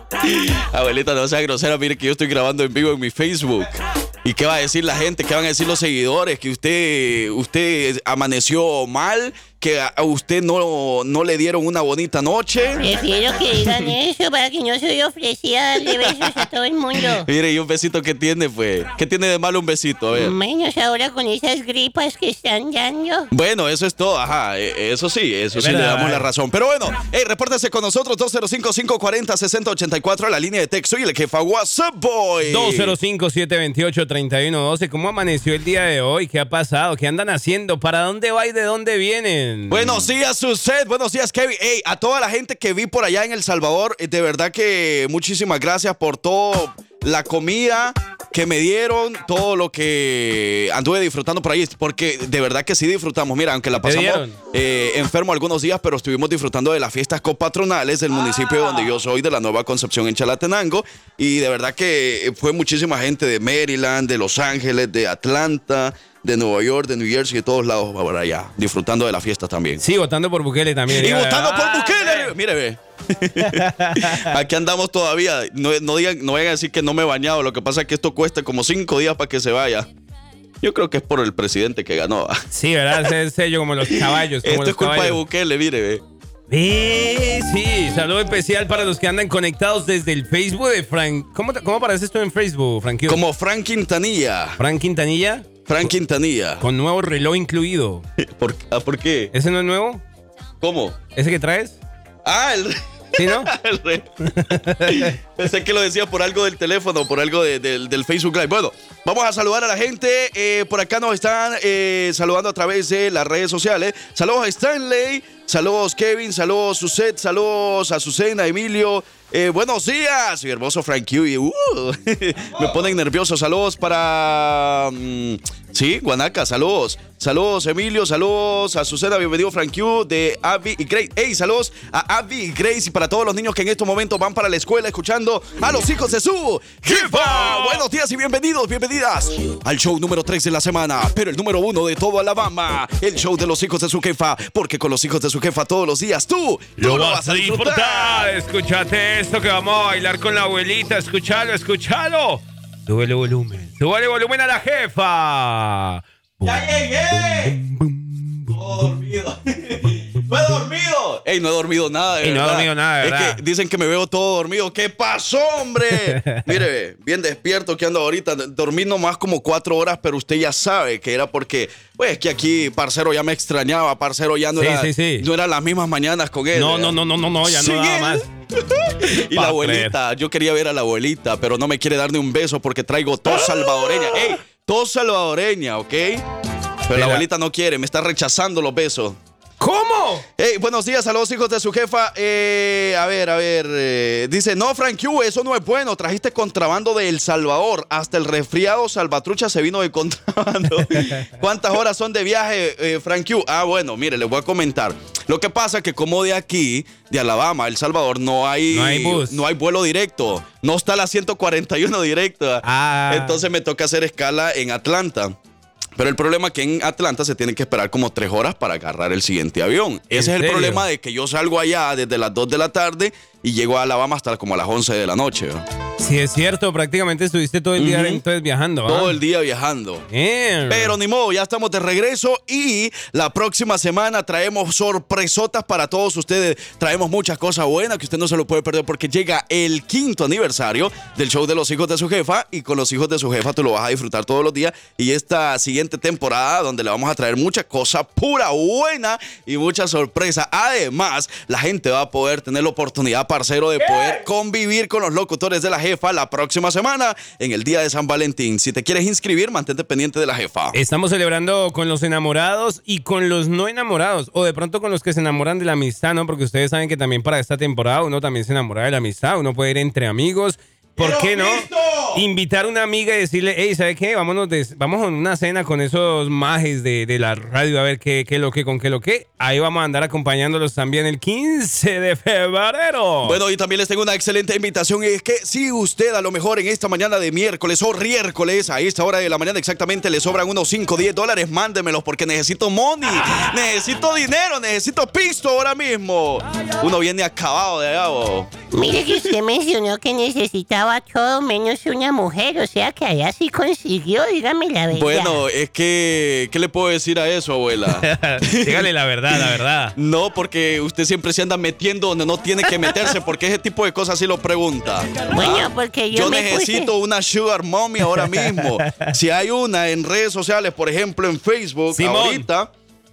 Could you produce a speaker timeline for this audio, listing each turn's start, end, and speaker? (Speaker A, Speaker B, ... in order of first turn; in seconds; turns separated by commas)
Speaker A: 0.2-12.8, Speaker B: 12.8-17.3, Speaker A: 15.8-16.4, Speaker A: 17.0-20.3, Speaker B: 20.1-23.3, Speaker A: 23.3-33.0, Speaker C: 25.5-26.3, Speaker C: 32.5-40.1, Speaker A: 39.7-69.8, Speaker C: 53.8-54.4, Speaker C: 69.8-72.3, Speaker A: 70.9-79.9, Speaker C: 73.4-74.3, Speaker A: 80.6-82.4, Speaker C: 82.5-85.2, Speaker A: 83.8-86.0, Speaker C: 86.5-93.2, Speaker A: 93.1-94.6, Speaker C: 94.6-95.9, Speaker A: 95.7-96.6, Speaker C: 96.6-98.0, Speaker A: 98.2-99.3, Speaker C: 99.3-100.0, Speaker A: 100.6-101.0, Speaker C: 101.1-101.8, Speaker A: 102.2-104.1, Speaker C: 103.2-103.5, Speaker C: 104.2-105.2, Speaker A: 104.8-148.3, Speaker C: 136.8-137.8, Speaker C: 146.8-158.5, Speaker A: 156.4-157.6, Speaker A: 158.5-186.2, Speaker C: 162.2-163.4, Speaker C: 165.9-166.5, Speaker C: 174.6-175.3, Speaker C: 176.5-178.3, Speaker C: 179.1-179.9, Speaker C: 183.3-184.4, Speaker A: 186.9-189.2, Speaker C: 186.9-187.2, Speaker C: 189.6-190.2, Speaker A: 190.4-215.3, Speaker C: 201.0-201.2, Speaker C: 208.7-209.4, Speaker C: 212.6-213.4, Speaker A: 215.9-225.6, Speaker C: 220.1-220.8, Speaker C: 226.0-229.1, Speaker A: 227.8-228.2, Speaker A: 228.8-230.0, Speaker C: 230.1-230.9, Speaker A: 230.7-260.8, Speaker C: 253.8-254.2, Speaker C: 260.7-283.4, Speaker A: 271.0-272.2, Speaker A: 283.2-298.5, Speaker B: 298.7-305.4, Speaker A: 304.9-322.7, Speaker C: 307.9-309.9, Speaker B: 315.3-316.9, Speaker C: 318.0-319.1, Speaker C: 321.9-322.5